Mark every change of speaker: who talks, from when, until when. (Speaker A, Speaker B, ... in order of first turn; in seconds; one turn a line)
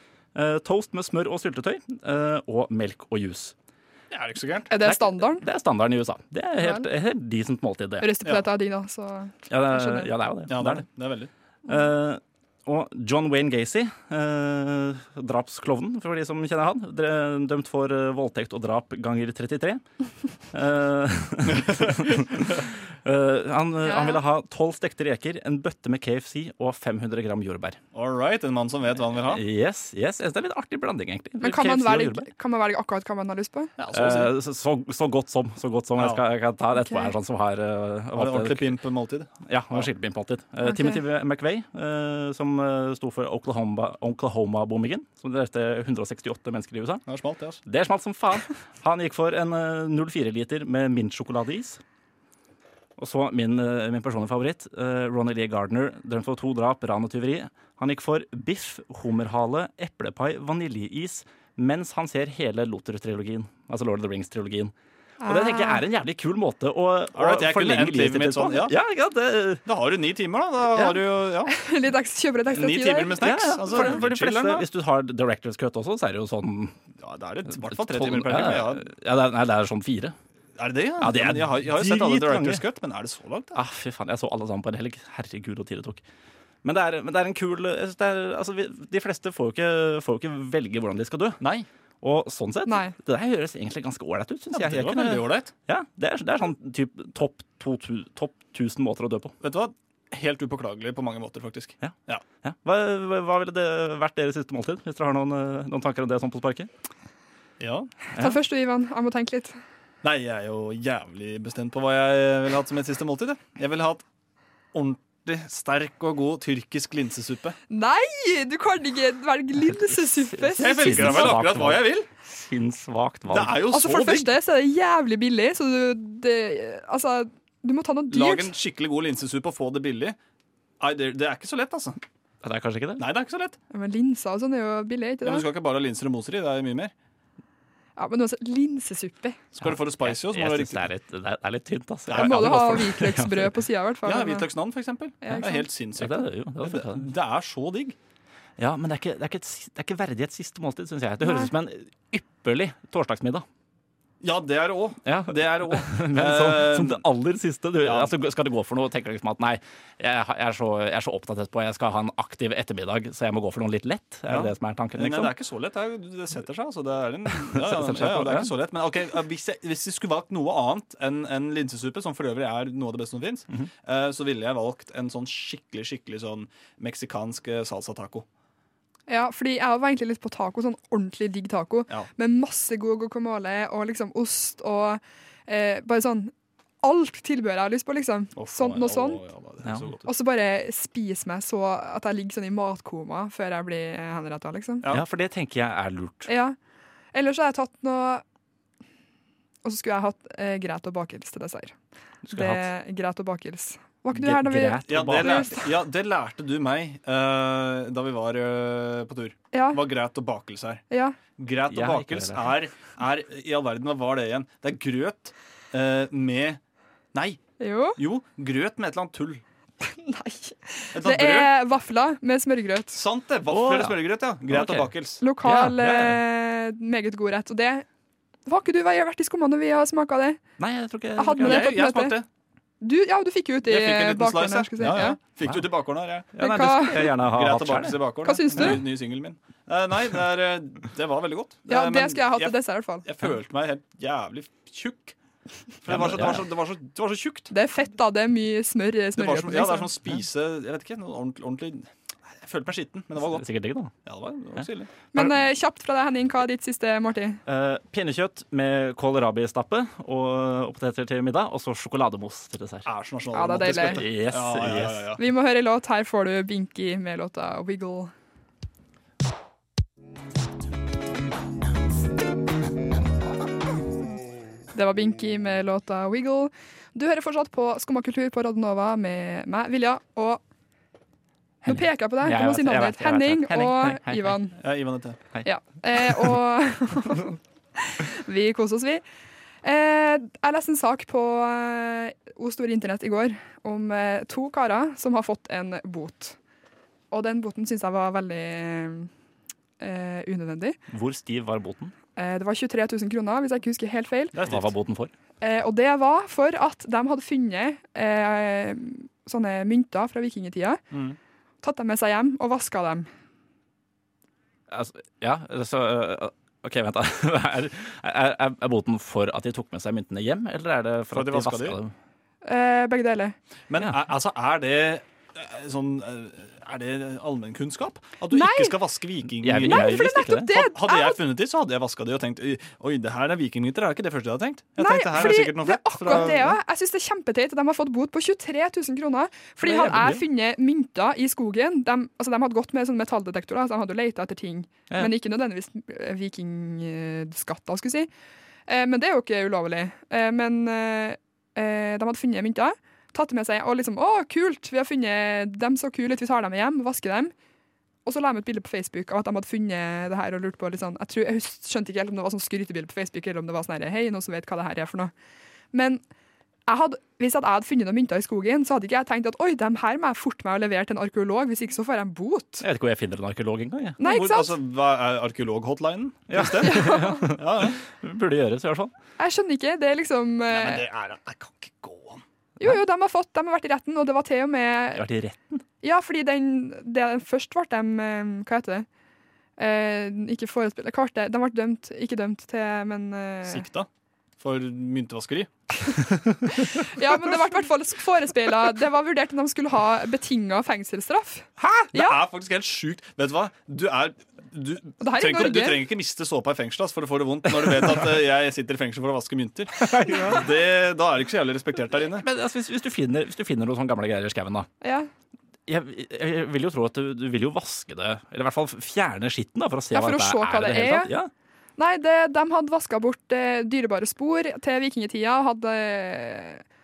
Speaker A: 0.3-3.5
Speaker B: 4.1-4.7
Speaker C: 4.7-5.4
Speaker A: 4.8-8.1
Speaker C: 6.6-6.9
Speaker C: 8.0-10.1
Speaker A: 9.5-10.9
Speaker B: 10.5-11.3
Speaker A: 11.7-19.8
Speaker A: 20.5-27.8
Speaker B: 21.5-22.1
Speaker C: 23.8-24.2
Speaker B: 27.9-29.4
Speaker A: 29.3-32.3
Speaker C: 31.4-33.7
Speaker B: 33.8-34.4
Speaker A: 33.9-38.8
Speaker C: 36.8-37.1
Speaker B: 38.1-39.9
Speaker A: 39.5-47.0
Speaker C: 40.6-41.0
Speaker B: 47.1-47.6
Speaker A: 47.7-51.8
Speaker A: 53.0-69.7
Speaker C: 65.2-65.8
Speaker B: 67.1-68.8
Speaker B: 69.7-71.5
Speaker C: 71.5-73.3
Speaker B: 72.5-74.7
Speaker A: 73.2-76.8
Speaker B: 77.0-78.9
Speaker A: 77.6-80.2
Speaker B: 80.6-83.6
Speaker A: 81.0-82.6
Speaker A: 83.5-86.0
Speaker A: 86.6-91.4
Speaker B: 91.4-91.7
Speaker A: 92.0-99.3
Speaker C: 92.7-92.9
Speaker B: 94.5-95.5
Speaker B: 99.4-102.2
Speaker A: 101.8-106.7
Speaker B: 107.6-107.9
Speaker C: 108.2-109.6
Speaker B: 110.0-114.0
Speaker B: 114.7-117.6
Speaker C: 117.7-121.4
Speaker A: 119.7-123.6
Speaker B: 120.6-122.1
Speaker B: 123.3-124.3
Speaker C: 123.7-128.5
Speaker B: 128.1-130.2
Speaker B: 130.8-132.0
Speaker A: 132.4-133.1
Speaker B: 133.0-133.6
Speaker C: 133.7-135.5
Speaker B: 135.2-136.9
Speaker C: 138.0-139.4
Speaker B: 139.5-140.9
Speaker A: 139.6-143.6
Speaker B: 142.1-142.9
Speaker C: 142.2-144.5
Speaker B: 144.0-148.0
Speaker C: 145.2-145.7
Speaker A: 146.0-147.1
Speaker A: 148.6-153.5
Speaker C: 151.2-151.5
Speaker B: 154.2-157.0
Speaker A: 155.1-165.3
Speaker B: 157.8-158.1
Speaker B: 164.3-178.3
Speaker A: 167.5-168.5
Speaker C: 179.1-189.2
Speaker B: 188.4-190.1
Speaker C: 190.1-194.9
Speaker A: 194.9-196.3
Speaker C: 196.3-196.6
Speaker C: 197.1-198.2
Speaker C: 199.6-201.8
Speaker A: 202.2-202.7
Speaker C: 202.3-205.7
Speaker A: 204.1-205.6
Speaker B: 204.8-210.8
Speaker C: 209.5-209.8
Speaker C: 210.9-211.2
Speaker B: 211.4-216.6
Speaker A: 211.7-212.5
Speaker B: 217.1-217.4
Speaker C: 217.6-218.0
Speaker B: 218.0-219.4
Speaker C: 219.8-223.0
Speaker B: 220.9-221.5
Speaker B: 222.9-225.2
Speaker A: 223.5-226.2
Speaker C: 225.2-227.9
Speaker C: 228.5-230.4
Speaker A: 230.6-231.7
Speaker C: 231.2-232.2
Speaker B: 231.4-232.3
Speaker C: 232.8-235.2
Speaker B: 233.7-236.4
Speaker A: 236.4-238.7
Speaker C: 236.4-237.2
Speaker B: 237.0-245.2
Speaker C: 238.2-238.8
Speaker C: 241.7-243.1
Speaker B: 245.8-247.5
Speaker A: 245.9-246.4
Speaker C: 247.5-249.9
Speaker B: 249.2-253.4
Speaker A: 253.3-253.9
Speaker B: 254.1-254.9
Speaker C: 255.1-257.4
Speaker A: 255.2-255.4
Speaker A: 257.5-262.9
Speaker B: 262.9-265.2
Speaker C: 263.3-264.0
Speaker A: 263.6-265.1
Speaker C: 265.2-268.1
Speaker C: 274.7-280.4
Speaker A: 281.6-284.4
Speaker C: 281.6-284.6
Speaker B: 284.6-285.2
Speaker C: 285.4-289.0
Speaker A: 286.0-286.3
Speaker C: 289.6-296.4
Speaker C: 297.1-299.1
Speaker C: 299.8-300.8
Speaker A: 300.9-301.9
Speaker C: 302.2-304.4
Speaker B: 304.3-304.7
Speaker A: 304.5-305.1
Speaker C: 305.4-310.8
Speaker B: 310.9-311.2
Speaker C: 311.6-313.1
Speaker A: 314.7-321.9
Speaker B: 321.1-321.8
Speaker C: 322.4-323.4
Speaker B: 323.7-336.6
Speaker C: 328.3-328.8
Speaker A: 329.4-330.5
Speaker C: 329.6-331.2
Speaker C: 334.8-348.1
Speaker A: 339.6-340.2
Speaker C: 348.7-357.3
Speaker C: 358.1-365.1
Speaker C: 365.7-366.0
Speaker C: 366.7-372.7
Speaker A: 372.6-374.0
Speaker C: 374.0-374.6
Speaker B: 374.0-377.8
Speaker A: 376.3-378.9
Speaker C: 376.4-377.4
Speaker C: 379.2-380.8
Speaker B: 380.5-382.2
Speaker C: 382.6-385.0
Speaker A: 384.9-385.6
Speaker C: 385.8-388.9
Speaker C: 389.6-393.6
Speaker B: 393.4-393.9
Speaker B: 394.4-395.5
Speaker C: 396.5-402.1
Speaker A: 401.6-401.9
Speaker B: 401.9-412.3
Speaker C: 405.0-405.9
Speaker A: 409.8-410.4
Speaker A: 412.1-414.7
Speaker C: 414.8-415.1
Speaker A: 415.7-421.3
Speaker C: 419.9-421.1
Speaker C: 421.8-426.6